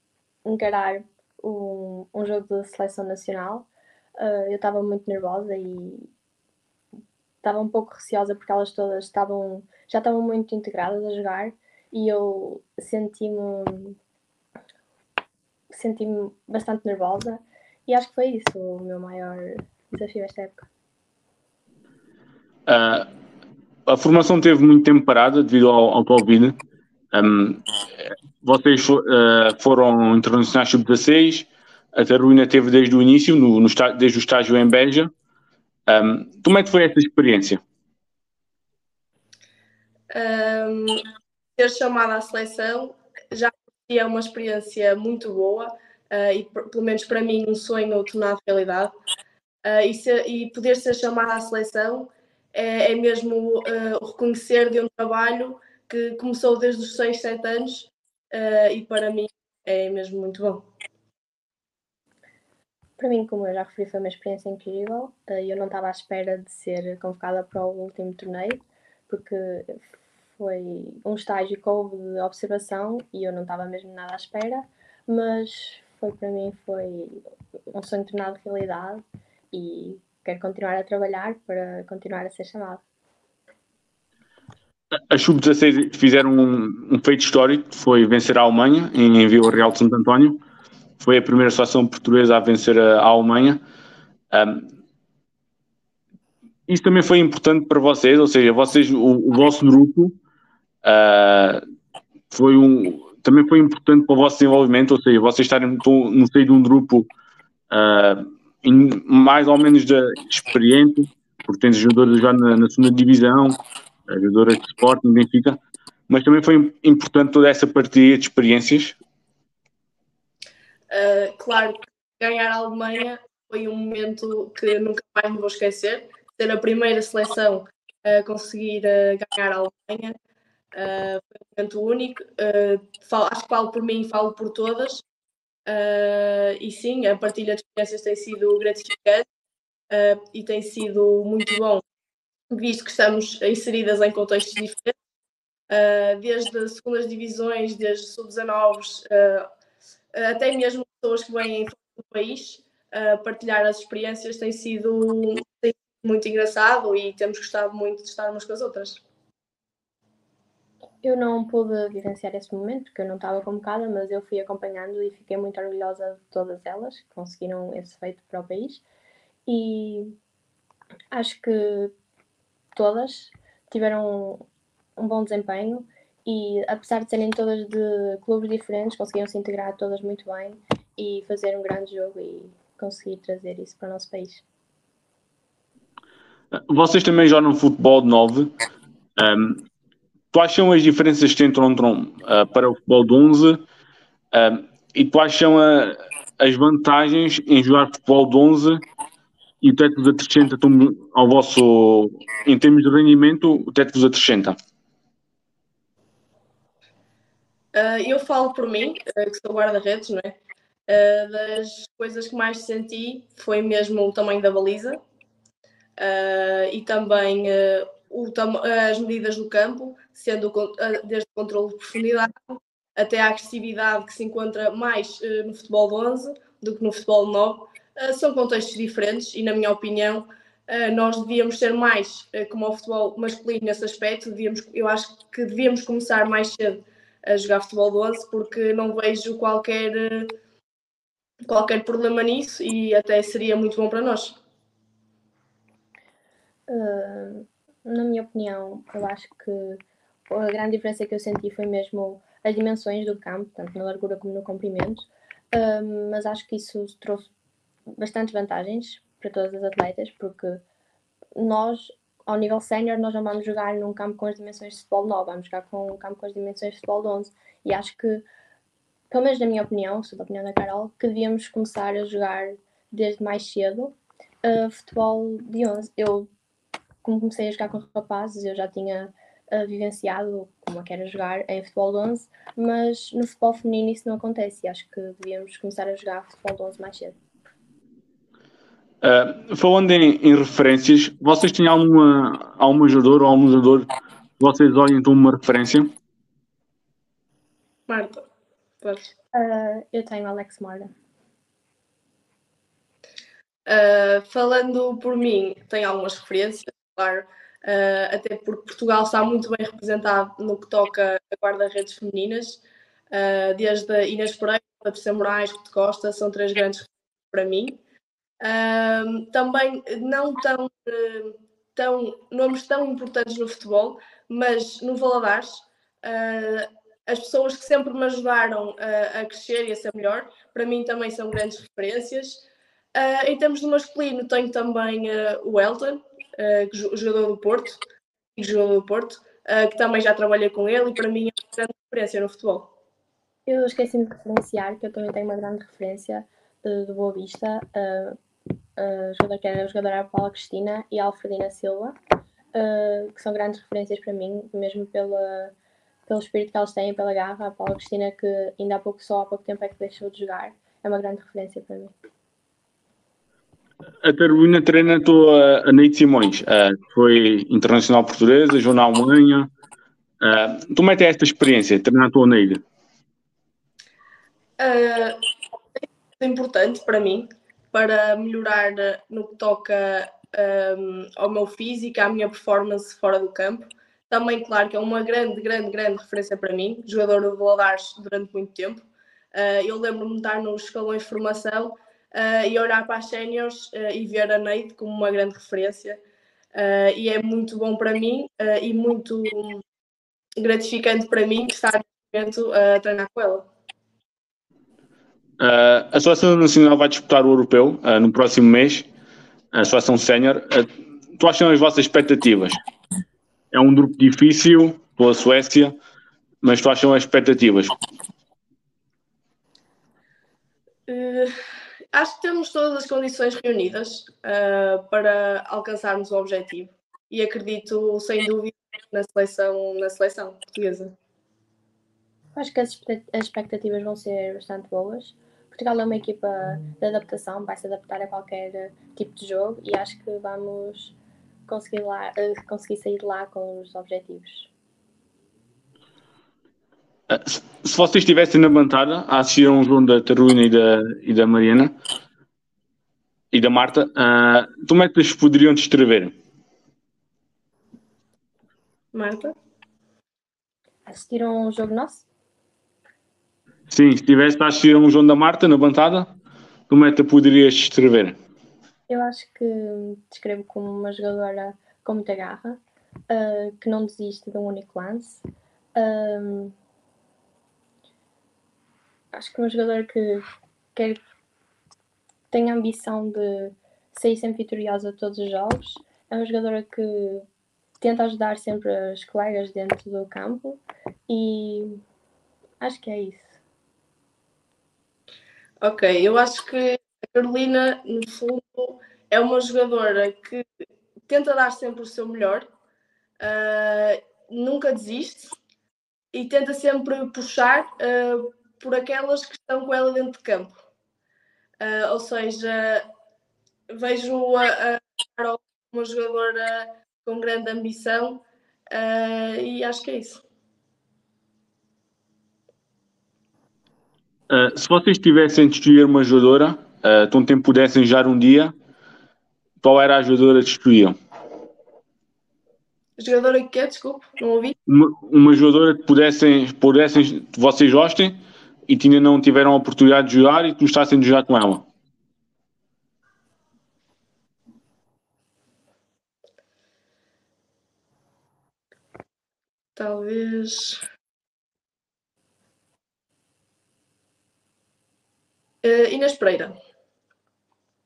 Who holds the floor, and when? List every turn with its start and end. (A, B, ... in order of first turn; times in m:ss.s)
0:00.4-0:06.1 A
0:07.4-0:14.0 A
0:15.7-0:20.7 A
0:22.7-0:23.1 B
0:23.9-0:26.6 B
0:27.1-0:35.1 B
0:35.9-0:37.6 B
0:40.1-0:48.9 C
0:49.6-1:00.6 C
1:03.0-1:22.8 A
1:25.1-1:30.4 B
1:31.0-1:33.6 B
1:34.3-1:34.7 B
1:36.7-1:40.2 B
1:40.8-1:41.6 B
1:42.3-1:47.1 B
1:47.7-1:53.6 B
1:54.1-1:55.6 B
1:56.1-1:59.0 B
2:00.9-2:10.1 C
2:10.7-2:15.0 C
2:15.7-2:19.2 C
2:19.9-2:21.8 C
2:22.5-2:24.9 C
2:25.7-2:29.5 C
2:30.1-2:39.0 C
2:41.0-2:48.8 A
2:49.4-2:50.1 A
2:51.1-2:51.9 A
2:52.7-2:54.4 A
2:55.0-3:04.4 A
3:06.5-3:08.5 B
3:09.2-3:09.6 B
3:10.3-3:13.6 B
3:14.3-3:18.8 B
3:19.6-3:24.6 B
3:27.7-3:30.3 C
3:30.9-3:35.0 C
3:36.0-4:00.3 C
4:01.5-4:04.4 C
4:06.7-4:17.3 A
4:18.0-4:20.6 A
4:21.4-4:28.2 A
4:29.1-4:36.3 A
4:37.0-4:47.2 A
4:49.0-4:53.9 B
4:54.4-4:55.9 B
4:57.9-4:58.2 C
4:58.8-4:59.1 C
4:59.3-5:00.9 A
5:03.7-5:17.8 C
5:18.4-5:37.8 C
5:38.4-5:42.7 C
5:43.4-5:48.2 A
5:48.8-5:52.0 A
5:52.5-5:55.5 A
5:56.1-6:01.9 A
6:04.0-6:09.5 B
6:10.2-6:12.6 B
6:14.6-6:15.2 C
6:16.2-6:36.0 C
6:36.5-6:39.6 C
6:40.4-6:43.5 C
6:45.4-6:48.9 B
6:49.5-6:52.6 B
6:53.5-6:55.8 B
6:56.4-6:57.7 B
7:00.9-7:01.3 C
7:01.9-7:10.9 C
7:12.3-7:20.9 A
7:21.5-7:24.5 A
7:27.1-7:31.7 B
7:33.3-7:36.1 B
7:38.9-7:39.3 C
7:40.9-7:42.0 A
7:43.7-7:46.1 B
7:46.7-7:48.2 B
7:48.9-7:55.2 A
7:55.7-7:56.5 A
7:59.1-8:00.2 A
8:00.7-8:01.0 A
8:02.3-8:07.2 A
8:07.8-8:11.8 A
8:12.6-8:13.4 A
8:15.6-8:20.4 C
8:21.1-8:22.5 C
8:23.2-8:25.4 C
8:26.1-8:30.5 C
8:31.6-8:32.9 C
8:33.7-8:40.2 C
8:44.3-8:48.5 B
8:49.6-8:50.9 B
8:53.0-8:54.5 C
8:54.7-9:01.6 B
9:09.8-9:10.8 C
9:15.6-9:16.5 C